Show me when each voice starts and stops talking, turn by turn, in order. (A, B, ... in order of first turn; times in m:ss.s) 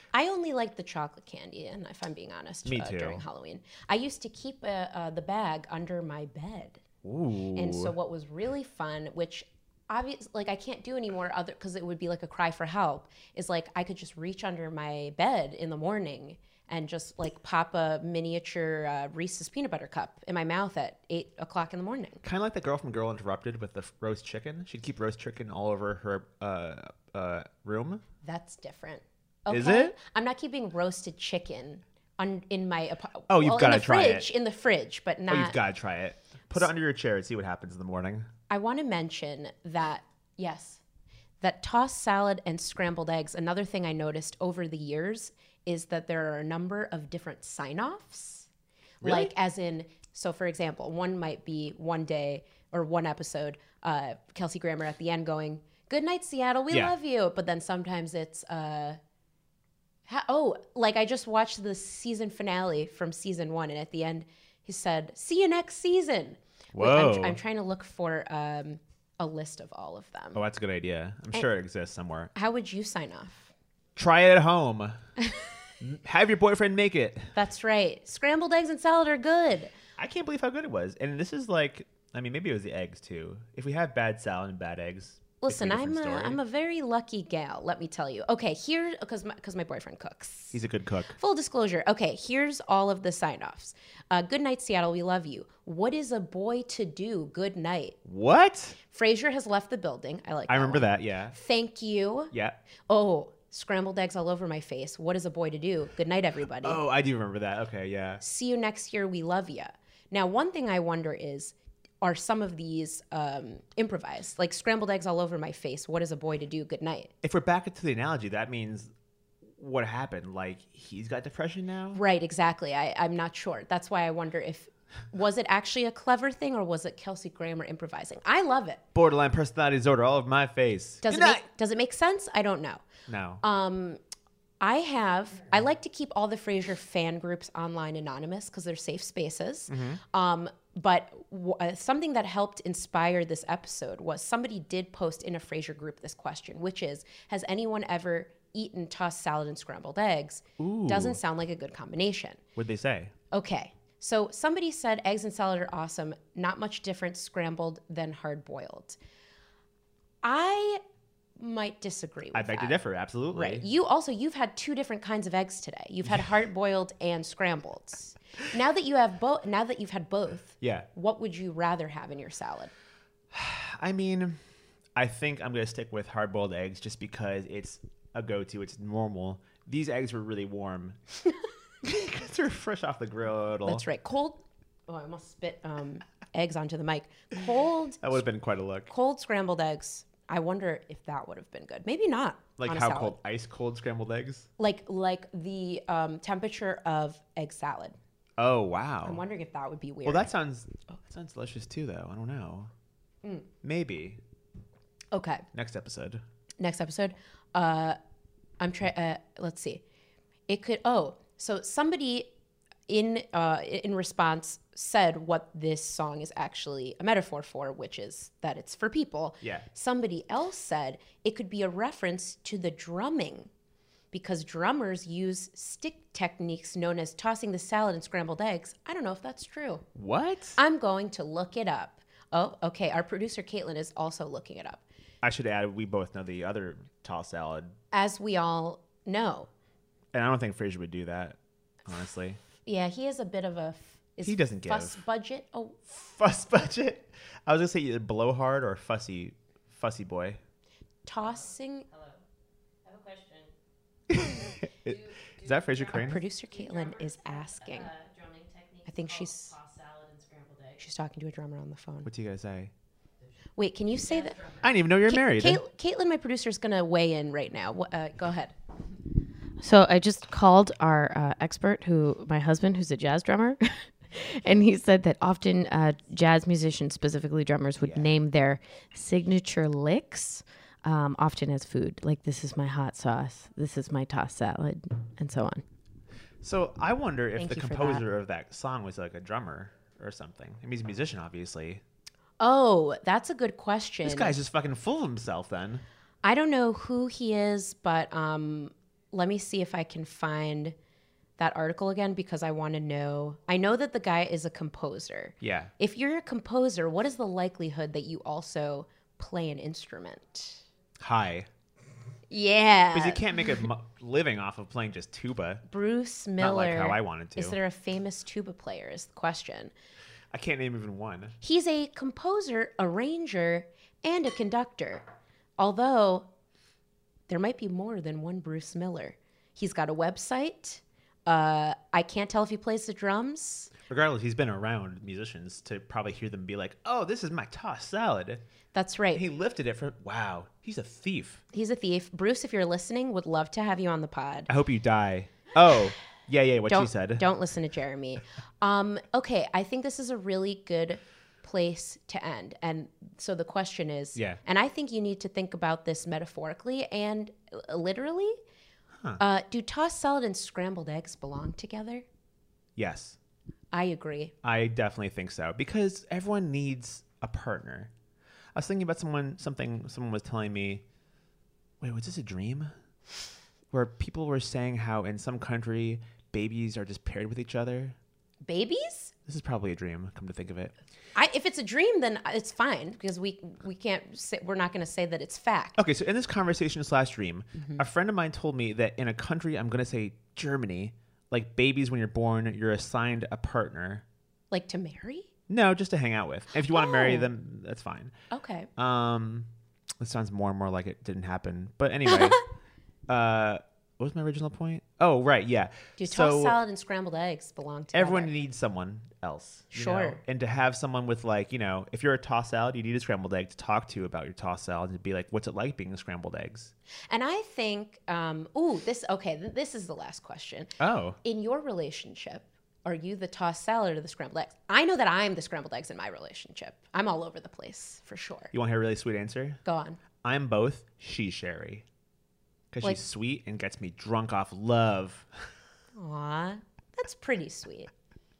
0:00.1-0:06.8 A
0:02.6-0:03.2 B
0:07.0-0:07.9 B
0:07.5-0:22.2 A
0:22.2-0:28.0 B
0:28.2-0:35.6 A
0:29.5-0:29.9 B
0:33.3-0:34.3 B
0:35.3-0:38.3 B
0:38.5-0:40.8 A
0:41.4-0:48.5 A
0:49.0-0:49.3 B
0:49.0-0:59.0 A
0:56.7-0:56.9 B
1:00.1-1:10.4 A
1:06.7-1:07.4 B
1:10.3-1:12.3 B
1:12.3-1:13.5 A
1:14.0-1:15.0 B
1:15.8-1:17.3 B
1:17.3-1:19.7 A
1:20.0-1:26.4 B
1:25.4-1:30.6 A
1:30.5-1:31.2 B
1:31.2-1:38.0 A
1:38.0-1:38.8 B
1:38.9-1:42.3 A
1:40.5-1:41.4 B
1:42.3-1:42.6 B
1:42.9-1:46.8 A
1:46.6-1:48.2 B
1:48.2-1:57.1 A
1:57.2-1:58.9 B
1:59.6-2:02.0 B
2:01.9-2:08.8 A
2:08.9-2:11.4 B
2:11.0-2:12.8 A
2:13.1-2:13.4 B
2:13.4-2:14.0 A
2:14.6-2:32.4 A
2:19.7-2:20.0 B
2:30.6-2:31.2 B
2:32.6-2:33.1 B
2:33.3-2:39.0 A
2:40.2-2:40.8 A
2:41.4-2:42.8 A
2:42.3-2:43.6 B
2:43.3-2:52.7 A
2:50.6-2:50.9 B
2:53.3-2:54.4 B
2:55.0-3:01.0 B
3:01.8-3:03.8 B
3:03.6-3:08.2 A
3:08.0-3:08.9 B
3:08.9-3:13.2 A
3:12.6-3:14.5 B
3:14.6-3:18.0 A
3:18.4-3:19.2 B
3:19.0-3:20.3 A
3:20.0-3:22.7 B
3:23.6-3:24.2 B
3:25.1-3:25.4 A
3:25.5-3:26.2 B
3:26.6-3:28.0 A
3:28.6-3:29.8 A
3:30.5-3:32.3 A
3:32.9-3:43.5 A
3:39.4-3:39.7 B
3:44.1-3:49.8 A
3:49.9-3:50.6 B
3:50.6-3:54.8 A
3:55.2-3:57.8 B
3:57.9-3:59.5 A
4:00.1-4:02.4 B
4:02.6-4:05.8 A
4:04.2-4:05.0 B
4:05.9-4:10.4 B
4:11.0-4:11.9 A
4:11.2-4:12.2 C
4:12.8-4:13.5 C
4:14.1-4:16.2 B
4:14.1-4:20.8 C
4:15.9-4:17.9 A
4:18.8-4:19.5 A
4:20.8-4:22.1 A
4:22.0-4:22.7 B
4:23.6-4:24.4 A
4:24.0-4:24.6 C
4:24.6-4:25.6 B
4:25.0-4:28.5 A
4:29.6-4:45.6 C
4:37.8-4:38.1 B
4:46.4-4:51.8 B
4:47.4-4:48.0 A
4:52.4-4:54.3 A
4:54.0-4:55.8 B
4:56.2-5:00.7 A
5:01.4-5:10.6 A
5:05.4-5:05.7 B
5:11.0-5:11.5 B
5:12.3-5:13.3 A
5:12.9-5:15.6 B
5:15.7-5:19.7 A
5:16.4-5:17.6 B
5:20.3-5:21.4 B
5:21.4-5:25.0 A
5:25.6-5:26.3 A
5:27.3-5:33.7 A
5:33.9-5:38.4 B
5:38.7-5:39.2 A
5:39.1-5:41.4 B
5:41.5-5:44.5 A
5:44.5-5:47.3 B
5:46.7-5:58.4 A
5:54.1-5:54.4 B
5:59.2-6:02.0 A
6:02.8-6:03.2 B
6:03.7-6:04.3 A
6:04.4-6:07.9 B
6:08.5-6:10.8 B
6:11.8-6:12.7 B
6:13.7-6:18.0 B
6:18.4-6:19.1 A
6:19.2-6:20.7 B
6:21.1-6:25.8 A
6:25.8-6:34.0 B
6:27.6-6:27.8 A
6:34.5-6:35.3 A
6:35.5-6:38.1 B
6:36.7-6:37.3 A
6:38.3-6:38.7 A
6:38.8-6:39.5 B
6:40.0-6:42.4 B
6:43.1-6:46.6 B
6:46.0-6:48.3 A
6:47.9-6:56.7 B
6:49.7-6:50.2 A
6:57.1-7:08.5 A
7:00.8-7:01.2 B
7:08.5-7:09.6 B
7:09.6-7:10.0 A
7:10.2-7:11.8 B
7:12.7-7:15.4 B
7:16.0-7:17.9 A